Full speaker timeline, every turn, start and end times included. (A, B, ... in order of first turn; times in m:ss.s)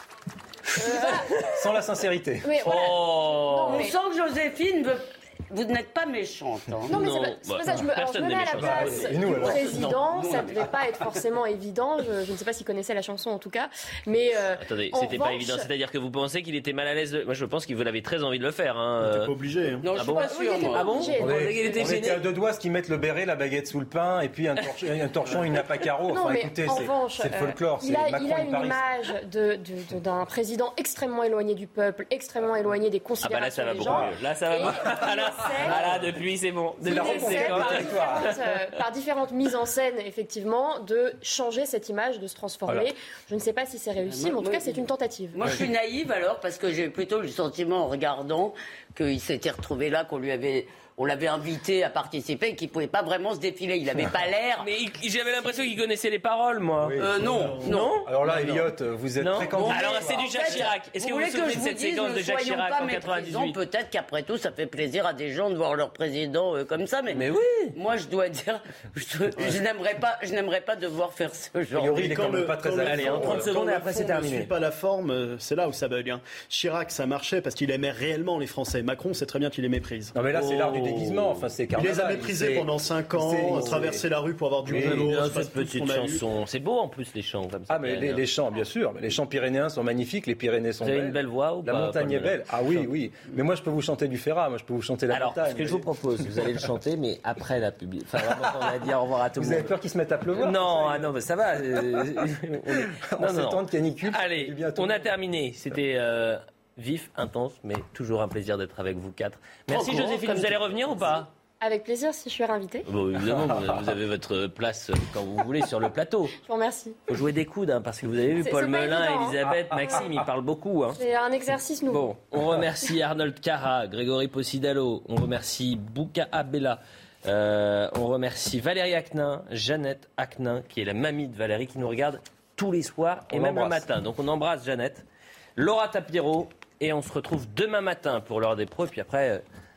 0:00.7-0:01.5 A
0:00.8-0:01.4 B
0:01.5-0:02.6 C
0:02.4-0:04.0 B
0:02.6-0:03.9 A
0:03.7-0:07.0 D
0:06.9-0:15.7 B
0:06.9-0:09.6 A
0:08.5-0:10.0 C
0:09.3-0:10.7 D
0:14.6-0:19.3 A
0:19.0-0:19.9 E
0:19.8-0:21.0 D
0:19.9-0:22.2 A
0:20.2-0:22.0 B
0:21.2-0:28.9 C
0:26.1-0:35.9 B
0:33.2-0:38.8 A
0:35.5-0:36.0 C
0:36.8-0:45.4 B
0:36.8-0:38.3 C
0:44.0-0:54.7 D
0:45.4-0:45.7 C
0:54.6-0:57.0 A
0:56.8-1:00.6 C
0:57.0-0:58.7 D
0:57.6-0:58.1 A
0:59.2-1:03.6 A
0:59.5-1:07.2 D
1:07.1-1:07.7 A
1:07.7-1:12.3 D
1:11.7-1:13.5 C
1:12.0-1:20.1 E
1:12.8-1:14.5 A
1:20.1-1:24.0 C
1:20.4-1:21.4 D
1:21.7-1:26.2 E
1:24.6-1:25.1 C
1:24.7-1:28.2 A
1:27.7-1:36.4 C
1:30.8-1:32.9 A
1:35.1-1:39.7 A
1:38.3-1:38.7 C
1:39.4-1:41.1 C
1:40.4-1:51.3 A
1:41.7-1:42.0 C
1:43.1-1:45.1 C
1:49.7-1:51.2 D
1:51.6-1:52.9 B
1:52.8-1:56.4 A
1:56.4-1:57.0 B
1:57.1-2:01.0 A
1:58.4-2:00.1 B
1:59.4-2:00.0 C
2:01.0-2:02.1 B
2:01.9-2:15.0 A
2:13.3-2:13.9 C
2:15.6-2:19.4 A